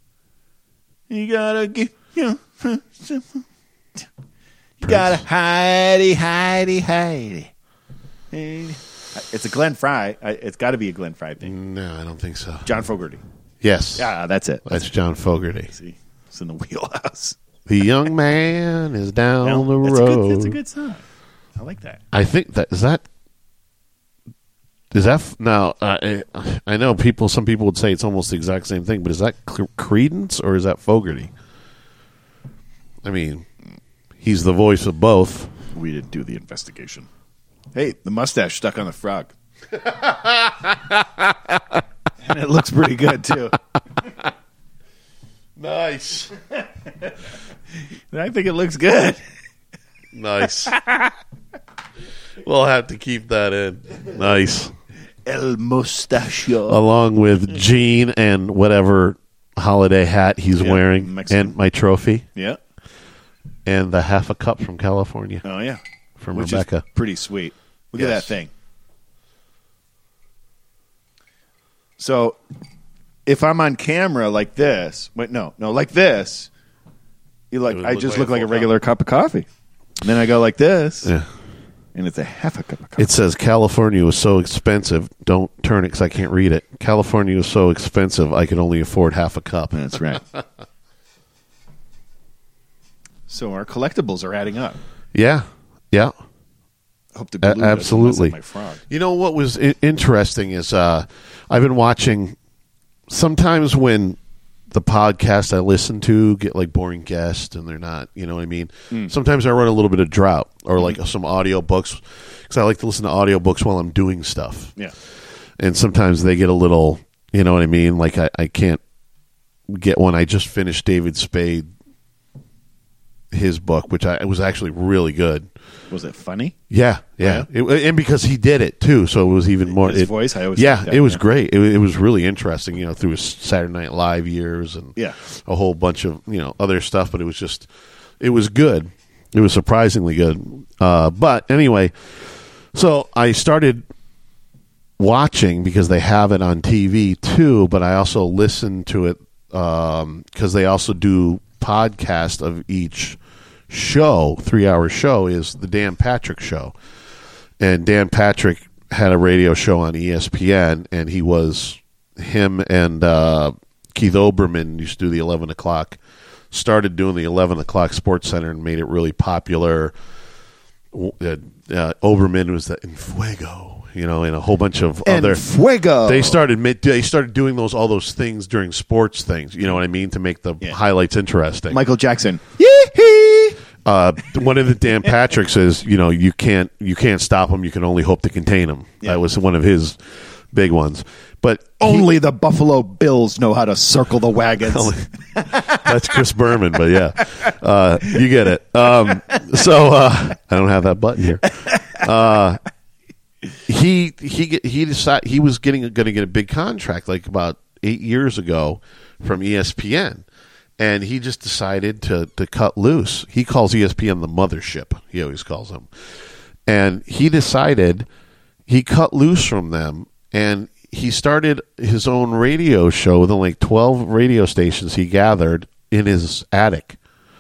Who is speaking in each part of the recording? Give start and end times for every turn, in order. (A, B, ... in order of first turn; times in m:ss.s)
0:01.1-0:03.4 A
0:04.8-0:07.5 A
0:04.8-0:05.2 B
0:08.3-0:11.5 A
0:11.4-0:12.7 B
0:12.6-0:13.2 A
0:13.6-0:14.1 B
0:14.0-0:14.9 A
0:14.7-0:15.7 B
0:15.7-0:17.4 A
0:17.7-0:20.6 B
0:19.4-0:21.0 A
0:21.6-0:22.0 A
0:22.1-0:23.0 B
0:24.9-0:31.3 B
0:33.0-0:33.5 B
0:34.2-0:35.5 B
0:35.7-0:37.1 A
0:37.8-0:39.3 A
0:39.7-0:41.6 B
0:42.2-0:43.6 A
0:45.6-0:46.4 B
0:48.1-0:49.2 A
0:50.1-0:50.8 B
0:50.7-0:51.1 A
0:52.4-0:54.7 B
0:55.3-0:56.8 A
0:56.7-1:02.3 B
1:00.6-1:01.5 A
1:03.7-1:05.4 B
1:05.4-1:05.8 A
1:06.2-1:06.8 B
1:06.3-1:08.5 A
1:08.0-1:08.3 B
1:12.0-1:12.4 A
1:13.3-1:16.5 A
1:17.5-1:19.5 A
1:17.7-1:18.7 B
1:20.0-1:21.1 A
1:22.0-1:23.1 A
1:23.0-1:30.4 B
1:29.7-1:30.2 A
1:33.3-1:34.8 A
1:35.1-1:36.1 B
1:37.2-1:38.8 A
1:37.4-1:38.4 B
1:38.9-1:42.4 B
1:43.1-1:44.2 B
1:44.7-1:54.7 B
1:55.6-1:58.8 B
1:59.7-2:01.7 B
2:03.3-2:05.5 B
2:05.9-2:06.6 A
2:06.7-2:17.7 B
2:07.2-2:07.5 A
2:09.7-2:11.2 A
2:18.2-2:21.9 B
2:22.7-2:23.8 B
2:25.0-2:33.2 B
2:33.7-2:36.8 B
2:37.6-2:46.0 B
2:46.5-2:50.0 B
2:50.9-2:55.5 B
2:55.0-2:56.4 A
2:56.0-3:01.8 B
3:01.7-3:03.6 A
3:03.8-3:10.0 B
3:10.5-3:12.1 B
3:11.8-3:15.8 A
3:14.7-3:22.6 B
3:21.7-3:22.0 A
3:23.7-3:30.2 B
3:30.8-3:35.9 B
3:36.7-3:38.1 B
3:38.7-3:47.0 B